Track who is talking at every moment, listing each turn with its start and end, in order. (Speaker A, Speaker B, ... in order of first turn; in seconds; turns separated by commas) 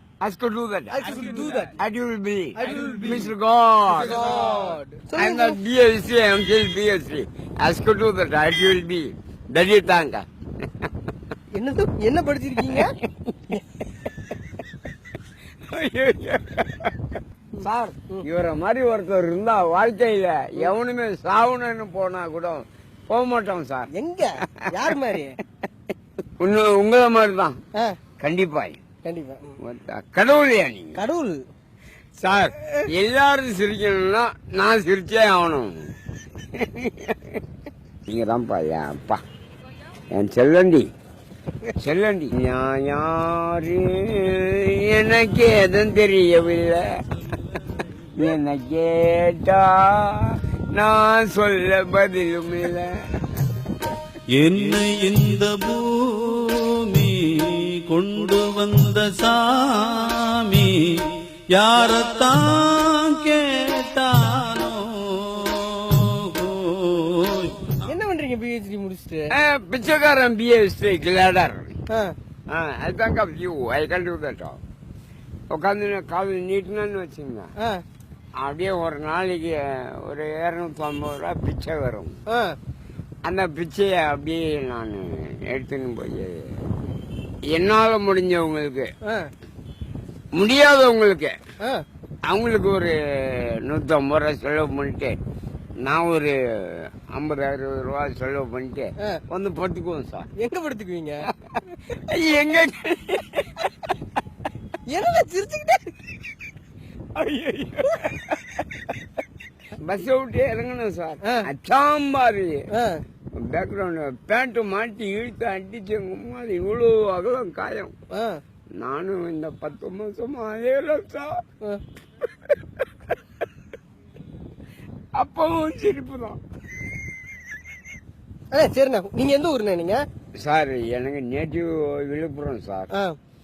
Speaker A: 0.2-4.2, Speaker B: 0.9-1.8, Speaker B: 2.6-3.2, Speaker B: 3.9-5.6, Speaker A: 5.2-10.2, Speaker B: 11.5-12.9, Speaker A: 12.7-13.3, Speaker A: 15.7-17.1, Speaker B: 17.6-18.2, Speaker A: 17.6-23.9, Speaker B: 23.9-25.4, Speaker A: 24.6-25.0, Speaker A: 26.4-27.6, Speaker A: 28.2-28.8, Speaker B: 29.0-29.6, Speaker A: 29.6-31.0, Speaker B: 30.9-31.4, Speaker A: 32.2-35.9, Speaker A: 36.5-37.4, Speaker A: 38.1-39.2, Speaker A: 40.1-40.9, Speaker A: 41.8-46.9, Speaker A: 48.1-52.9, Speaker C: 54.4-60.8, Speaker C: 61.5-67.5, Speaker B: 67.8-69.3, Speaker A: 69.3-71.7, Speaker A: 72.5-74.6, Speaker A: 75.5-77.5, Speaker A: 78.4-82.2, Speaker B: 82.3-82.5, Speaker A: 83.2-86.5, Speaker A: 87.5-88.9, Speaker A: 90.3-91.3, Speaker A: 92.2-95.2, Speaker A: 95.8-100.3, Speaker B: 100.4-101.2, Speaker A: 101.5-103.7, Speaker B: 104.9-105.8, Speaker A: 107.1-108.3, Speaker A: 109.8-112.6, Speaker B: 112.7-113.0, Speaker A: 113.3-117.9, Speaker B: 118.1-118.4, Speaker A: 118.8-121.3, Speaker A: 125.2-126.4, Speaker B: 128.5-130.0, Speaker A: 130.3-132.9